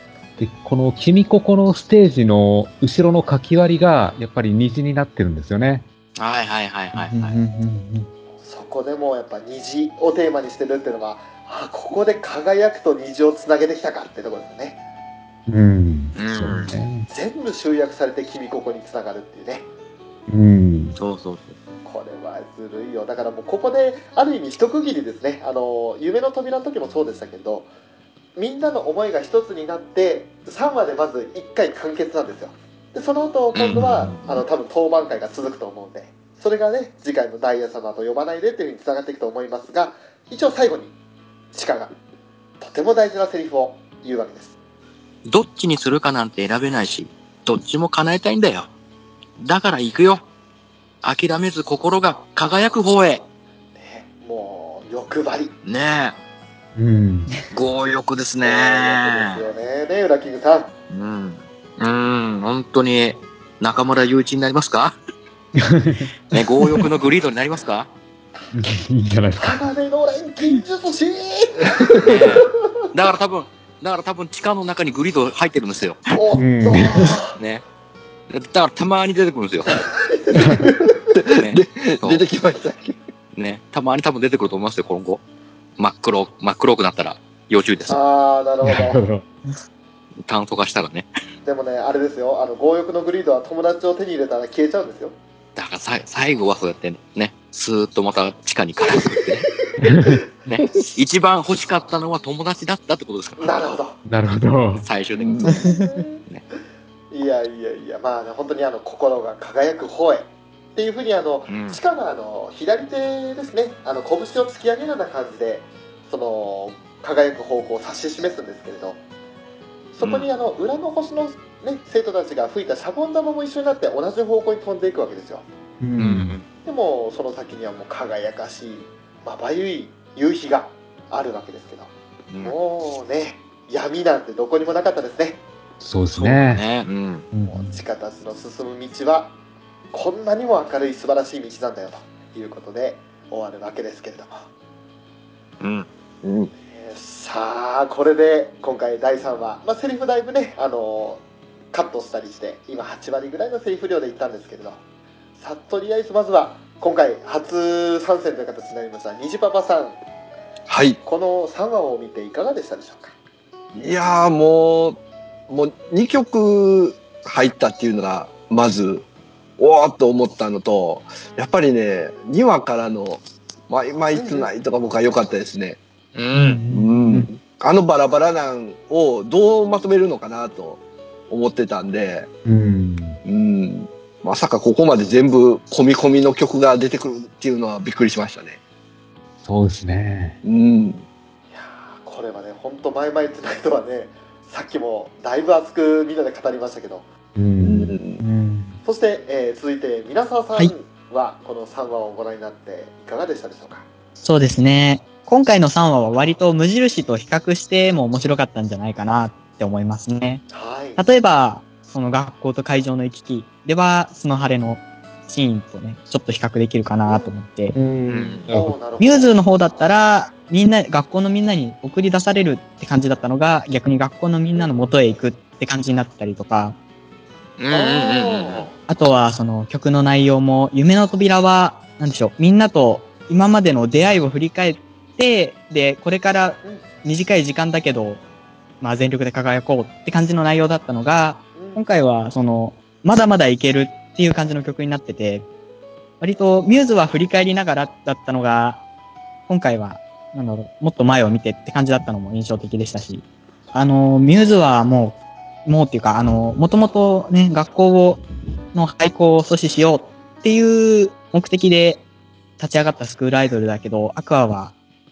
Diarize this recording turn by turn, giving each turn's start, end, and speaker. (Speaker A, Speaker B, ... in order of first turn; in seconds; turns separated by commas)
Speaker A: 0.4-5.8, Speaker B: 6.2-7.3, Speaker C: 7.0-8.1, Speaker D: 8.4-14.8, Speaker A: 15.5-17.1, Speaker B: 16.1-16.7, Speaker D: 17.1-19.7, Speaker A: 20.3-21.0, Speaker B: 20.9-21.5, Speaker D: 21.8-27.7, Speaker D: 28.4-40.9, Speaker B: 33.5-34.4, Speaker A: 33.7-34.1, Speaker D: 41.5-41.9, Speaker D: 42.6-44.5, Speaker B: 45.2-48.7, Speaker B: 49.4-50.2, Speaker B: 51.0-53.2, Speaker D: 53.8-55.5, Speaker B: 55.6-56.1, Speaker A: 56.8-57.3, Speaker B: 57.5-59.4, Speaker D: 58.4-60.7, Speaker B: 60.9-65.0, Speaker A: 65.7-66.1, Speaker B: 66.3-67.9, Speaker A: 68.5-69.7, Speaker D: 69.4-71.7, Speaker E: 71.6-72.4, Speaker B: 72.0-76.0, Speaker D: 76.1-77.3, Speaker A: 76.3-77.1, Speaker B: 77.3-77.6, Speaker B: 78.3-79.7, Speaker D: 80.0-80.9, Speaker A: 80.3-80.7, Speaker E: 81.1-83.0, Speaker B: 81.3-82.2, Speaker B: 83.3-85.2, Speaker B: 85.8-88.0, Speaker D: 87.9-89.0, Speaker A: 88.6-89.2, Speaker B: 90.2-91.1, Speaker D: 91.4-95.1, Speaker B: 95.5-99.5, Speaker A: 99.8-100.2, Speaker B: 100.5-103.6, Speaker D: 103.4-104.0, Speaker A: 104.0-104.8, Speaker B: 104.8-105.4, Speaker E: 105.1-105.5, Speaker C: 105.4-106.0, Speaker D: 105.5-106.2, Speaker D: 107.1-119.0, Speaker B: 111.5-111.8, Speaker D: 119.9-125.4, Speaker B: 120.0-120.3, Speaker A: 125.8-126.3, Speaker B: 126.0-126.5, Speaker D: 126.6-131.9, Speaker D: 132.4-135.4, Speaker A: 135.8-136.6, Speaker B: 136.1-137.2, Speaker C: 137.3-137.8, Speaker D: 137.5-139.3, Speaker D: 139.9-144.5, Speaker B: 145.6-145.9, Speaker E: 146.2-146.5, Speaker D: 146.7-154.8, Speaker D: 155.4-160.0, Speaker E: 160.7-161.0, Speaker D: 161.0-163.1, Speaker E: 163.7-169.0, Speaker E: 169.6-175.8, Speaker D: 174.1-174.5, Speaker B: 176.1-176.6, Speaker C: 176.3-177.3, Speaker E: 176.7-182.3, Speaker A: 182.4-183.2, Speaker E: 183.2-188.6, Speaker A: 189.4-190.4, Speaker E: 190.4-191.0, Speaker D: 191.5-197.0, Speaker A: 197.3-198.0, Speaker E: 197.6-198.2, Speaker C: 198.2-198.8, Speaker D: 198.8-203.8, Speaker C: 204.2-210.4, Speaker D: 210.5-211.0, Speaker C: 210.9-217.8, Speaker D: 217.1-217.3, Speaker A: 217.7-218.8, Speaker B: 218.1-218.5, Speaker D: 218.5-219.3, Speaker C: 219.0-226.8, Speaker B: 227.6-228.7, Speaker D: 227.7-228.7, Speaker C: 228.9-238.2, Speaker C: 238.8-245.4, Speaker D: 241.5-241.8, Speaker C: 246.2-248.8, Speaker C: 249.5-258.2, Speaker C: 258.7-262.0, Speaker C: 262.6-264.7